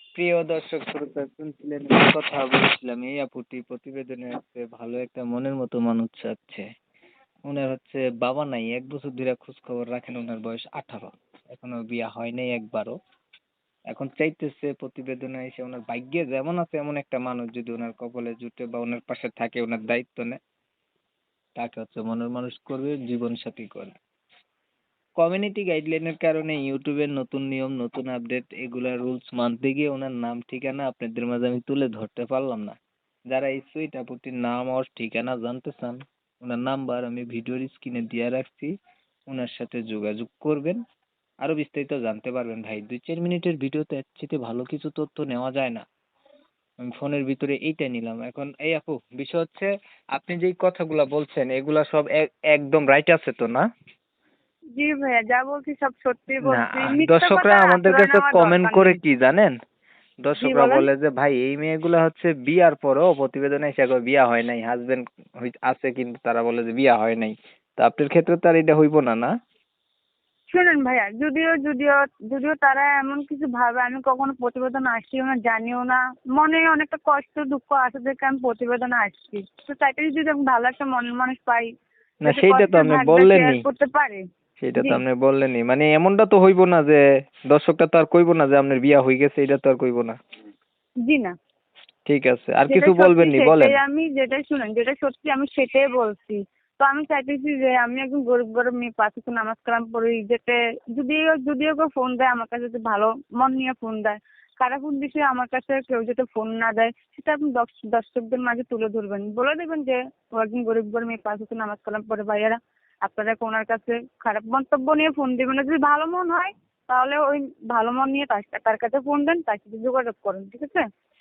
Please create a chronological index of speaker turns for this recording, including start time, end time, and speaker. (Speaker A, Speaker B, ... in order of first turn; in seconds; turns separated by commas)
Speaker A: 0.1-6.6, Speaker A: 7.4-12.9, Speaker A: 13.9-20.4, Speaker A: 21.6-23.9, Speaker A: 25.2-32.8, Speaker A: 33.3-38.7, Speaker A: 39.3-40.8, Speaker A: 41.4-45.8, Speaker A: 46.8-53.6, Speaker B: 54.8-59.0, Speaker A: 56.4-59.5, Speaker A: 60.2-69.3, Speaker B: 60.4-60.9, Speaker B: 70.5-81.7, Speaker A: 82.2-83.6, Speaker B: 82.2-84.2, Speaker A: 84.6-90.2, Speaker B: 84.7-85.0, Speaker B: 91.0-91.3, Speaker A: 92.0-93.8, Speaker B: 92.7-120.8